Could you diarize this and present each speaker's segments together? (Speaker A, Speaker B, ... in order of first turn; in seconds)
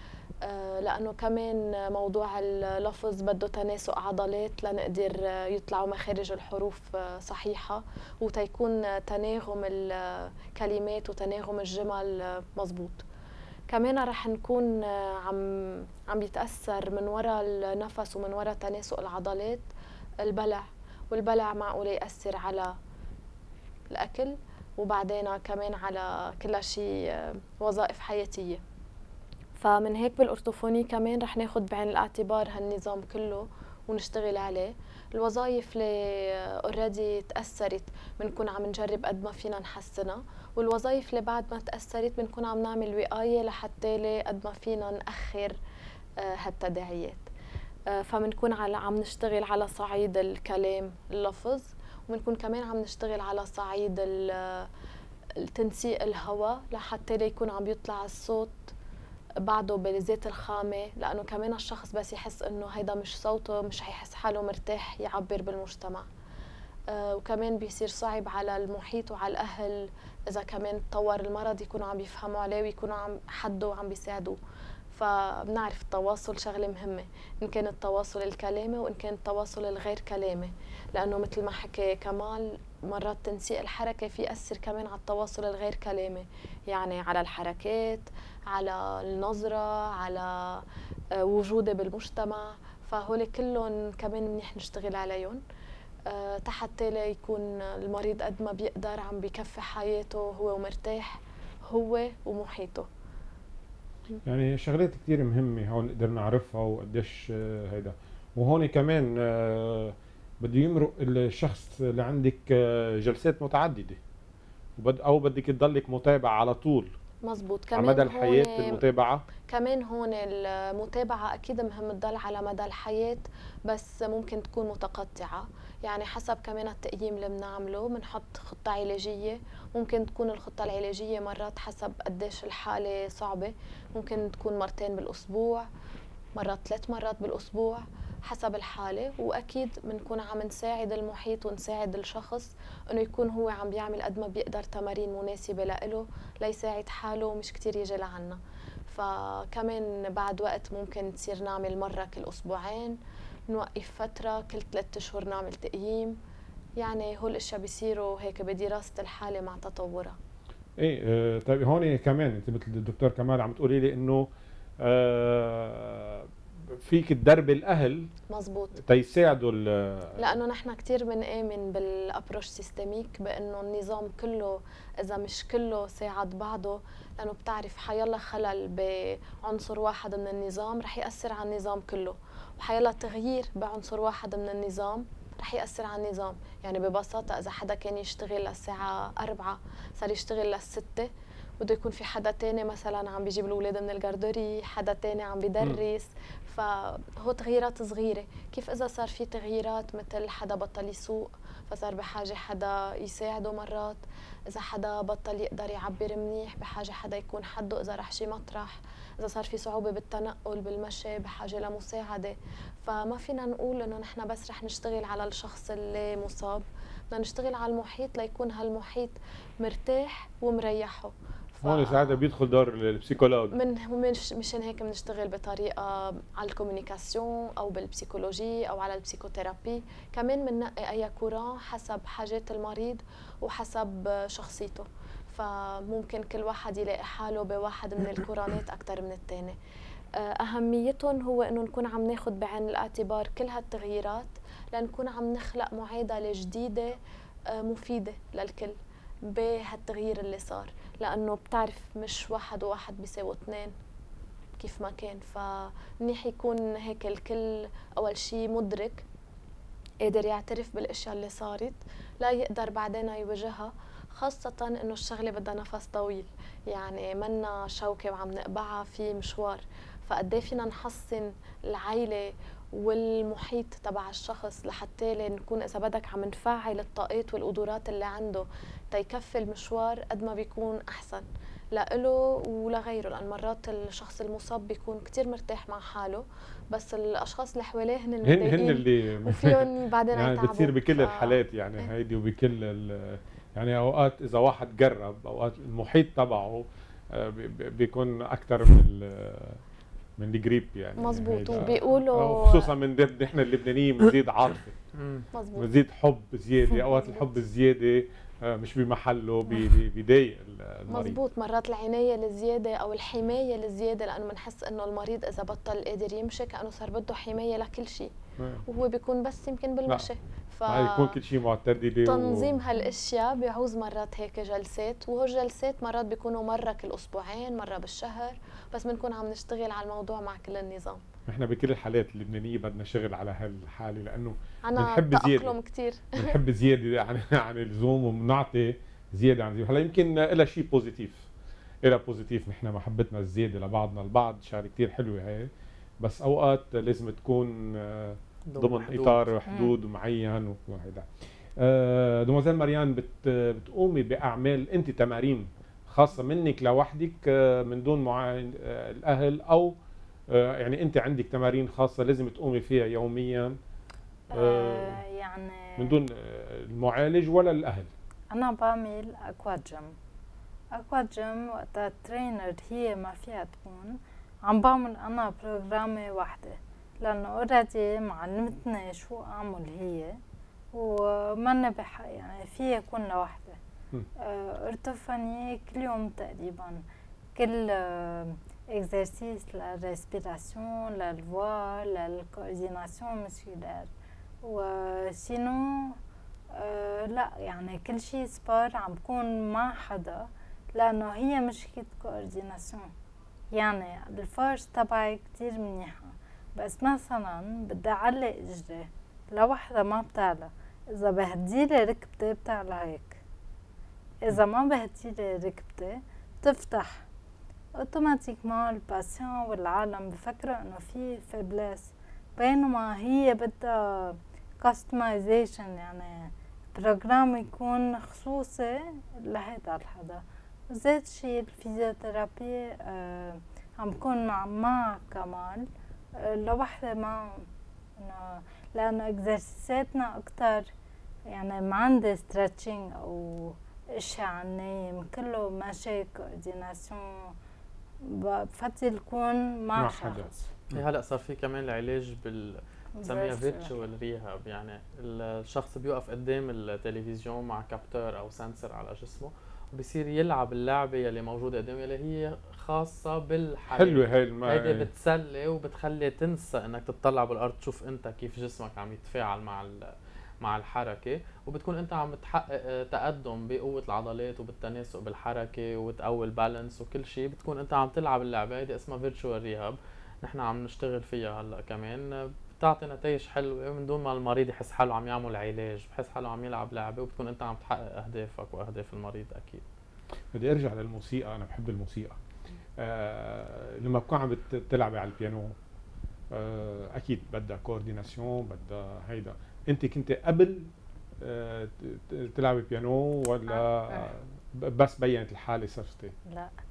Speaker A: 0.4-13.0, 13.7-19.7, 20.2-22.7, 23.9-28.6, 29.6-45.6, 46.2-47.3, 47.9-54.7, 55.4-58.7, 59.4-66.1, 66.9-74.4, 74.9-90.6, 91.1-95.4, 96.1-102.9, 117.2-118.8, 119.4-135.7, 136.3-153.0, 153.5-156.2, 156.8-160.2, 168.3-168.7, 170.2-191.1, 191.6-222.2, 223.5-239.6, 240.2-247.0, 247.5-248.8, 249.3-253.7, 254.6-259.0, 260.0-291.9, 301.0-302.7, 305.3-305.7, 306.7-307.3, 310.9-318.1, 318.7-321.2, 322.0-331.0, 334.6-336.4
Speaker B: 104.2-114.0, 114.8-116.9, 117.7-119.2, 160.8-164.3, 164.8-168.1, 168.8-170.4, 221.6-223.6, 288.2-299.6, 300.2-304.8, 305.5-311.2, 318.4-318.6, 320.7-322.6, 331.3-335.5, 336.1-341.3, 341.8-359.7, 360.3-363.6, 364.3-365.0, 365.8-367.9, 449.8-450.8, 463.7-464.9, 490.3-492.1, 492.8-495.5, 496.3-506.1
Speaker C: 304.9-305.2, 348.5-349.2, 450.7-489.6
Speaker D: 349.5-349.8, 364.3-366.0, 368.3-369.9, 370.7-380.2, 380.7-383.6, 384.2-386.8, 387.4-393.9, 394.4-396.0, 396.5-402.9, 403.5-413.2, 414.2-417.1, 417.8-440.7, 441.3-447.3, 448.0-450.5, 453.0-453.7, 503.5-504.1, 506.3-506.5